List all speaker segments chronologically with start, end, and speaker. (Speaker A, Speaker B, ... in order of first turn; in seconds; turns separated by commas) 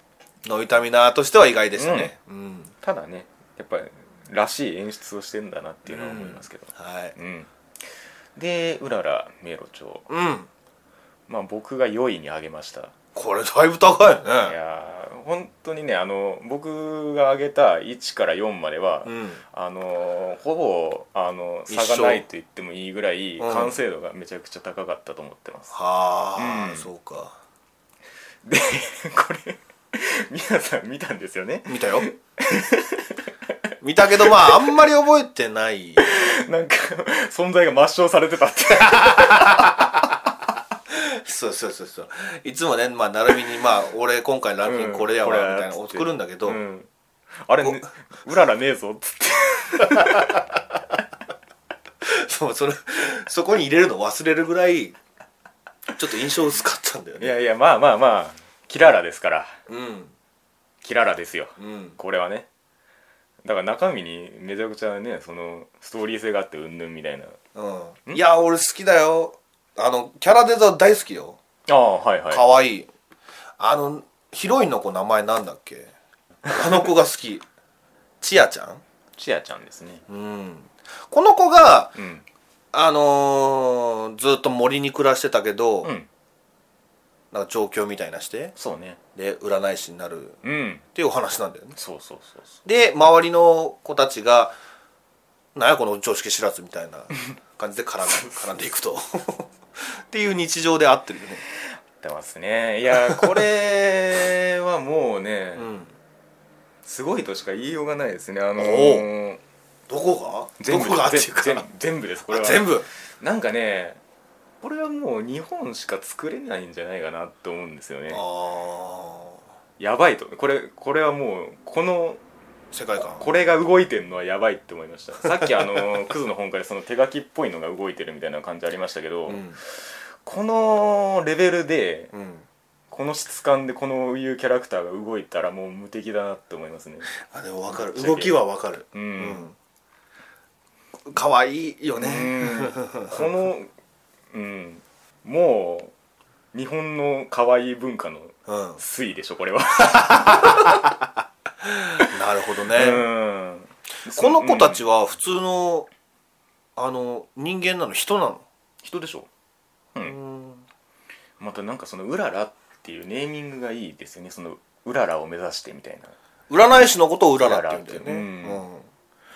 Speaker A: 0.4-2.7, Speaker B: 1.8-2.1, Speaker B: 2.8-7.5, Speaker A: 5.8-7.1, Speaker B: 8.3-10.1, Speaker A: 10.1-10.5, Speaker B: 11.3-12.9, Speaker A: 13.1-14.6, Speaker B: 14.4-25.7, Speaker A: 19.0-19.4, Speaker A: 21.7-22.2, Speaker A: 23.4-23.8, Speaker A: 25.7-27.4, Speaker B: 26.4-26.9, Speaker B: 28.4-33.2, Speaker A: 31.7-32.1, Speaker A: 33.8-36.1, Speaker B: 34.2-34.8, Speaker B: 36.0-39.9, Speaker A: 38.8-40.1, Speaker A: 40.9-46.6, Speaker B: 44.6-46.9, Speaker B: 47.4-50.4, Speaker A: 49.8-50.4, Speaker A: 52.0-55.0, Speaker A: 55.9-57.3, Speaker B: 57.2-59.6, Speaker A: 59.7-60.1, Speaker B: 60.8-62.5, Speaker A: 61.6-62.0, Speaker B: 63.4-67.4, Speaker A: 67.5-71.4, Speaker B: 71.7-72.4, Speaker A: 72.3-72.9, Speaker A: 73.6-75.9, Speaker A: 76.4-77.4, Speaker A: 78.2-78.8, Speaker B: 79.2-80.0, Speaker A: 80.1-82.0, Speaker B: 81.9-82.2, Speaker A: 82.7-85.9, Speaker A: 87.3-88.5, Speaker B: 88.5-89.0, Speaker A: 89.2-90.4, Speaker B: 90.4-90.8, Speaker A: 90.9-91.8, Speaker B: 91.8-92.6, Speaker A: 92.6-94.5, Speaker A: 95.5-101.4, Speaker B: 102.0-105.7, Speaker A: 102.9-103.3, Speaker A: 105.6-105.9, Speaker B: 106.8-109.4, Speaker A: 108.6-109.1, Speaker A: 109.9-111.7, Speaker B: 110.6-114.0, Speaker A: 112.3-112.8, Speaker B: 114.6-118.2, Speaker A: 118.1-119.4, Speaker B: 119.8-122.2, Speaker A: 122.7-123.2, Speaker B: 123.0-132.1, Speaker A: 125.4-125.7, Speaker A: 129.3-129.6, Speaker A: 132.1-132.4, Speaker B: 132.9-137.1, Speaker A: 137.1-139.5, Speaker B: 137.7-138.4, Speaker B: 138.9-139.4, Speaker A: 141.1-143.2, Speaker B: 141.9-143.7, Speaker B: 144.3-145.9, Speaker B: 146.5-150.9, Speaker A: 148.5-148.8, Speaker A: 150.1-150.9, Speaker A: 151.6-153.0, Speaker B: 152.7-154.8, Speaker A: 154.1-155.9, Speaker A: 156.8-158.4, Speaker B: 158.8-159.3, Speaker A: 160.0-160.6, Speaker B: 161.4-166.1, Speaker A: 166.5-168.9, Speaker B: 167.4-168.6